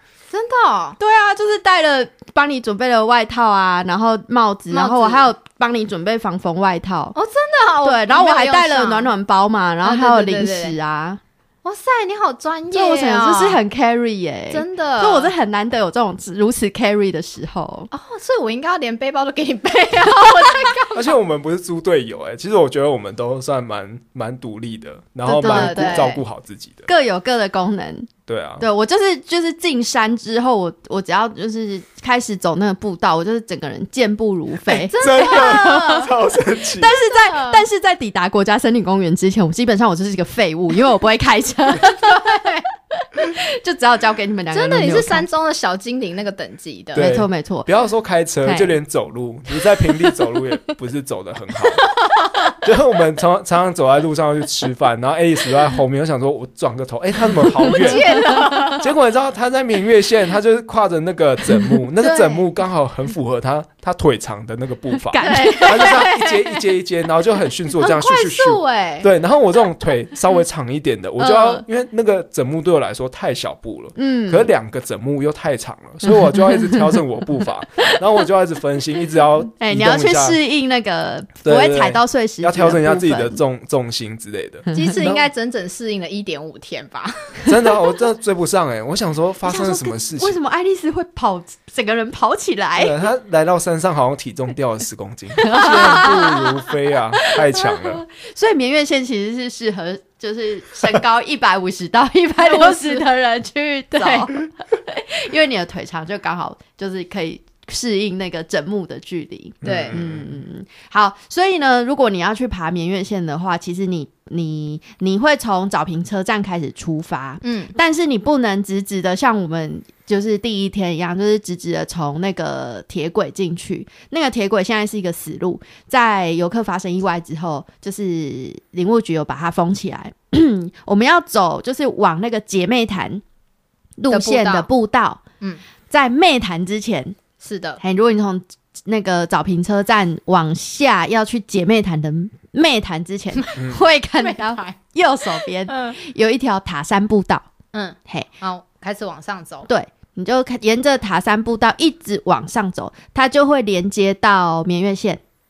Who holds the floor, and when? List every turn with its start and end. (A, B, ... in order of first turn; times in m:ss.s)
0:00.3-0:01.0 A
0:01.0-0:07.1 B
0:04.7-0:05.3 A
0:07.1-0:09.1 A
0:07.8-0:11.2 B
0:09.8-0:10.8 A
0:11.6-0:13.6 A
0:12.7-0:17.9 B
0:14.5-0:15.3 A
0:17.9-0:21.1 A
0:20.9-0:26.9 C
0:25.2-0:26.2 B
0:25.4-0:26.2 A
0:26.9-0:36.1 B
0:28.3-0:28.6 C
0:34.7-0:36.1 A
0:35.0-0:36.9 C
0:36.8-0:42.2 B
0:37.0-0:37.6 A
0:41.9-0:42.6 A
0:43.2-0:45.3 B
0:44.5-0:47.1 A
0:46.9-0:51.8 C
0:47.0-0:47.7 B
0:48.4-0:48.8 B
0:52.6-0:58.2 C
0:57.6-0:58.8 A
0:57.6-0:58.6 B
0:58.7-1:20.4 C
1:02.0-1:02.4 A
1:05.0-1:06.2 B
1:05.2-1:06.5 A
1:07.7-1:09.1 A
1:11.2-1:11.6 B
1:14.0-1:14.5 B
1:19.6-1:23.4 B
1:21.4-1:25.2 C
1:24.7-1:27.4 A
1:27.4-1:30.4 C
1:29.4-1:33.0 B
1:32.8-1:38.0 C
1:35.4-1:36.4 B
1:35.5-1:36.5 A
1:37.2-2:13.2 B
1:42.4-1:43.1 A
1:43.9-1:44.3 A
1:49.6-1:50.0 A
1:49.6-1:50.2 C
1:57.4-1:57.7 A
2:14.0-2:15.2 B
2:14.1-2:14.7 A
2:15.9-2:17.2 B
2:17.4-2:17.8 A
2:17.8-2:27.4 B
2:24.2-2:24.8 A
2:25.4-2:26.0 A
2:27.7-2:29.7 A
2:29.7-2:35.2 B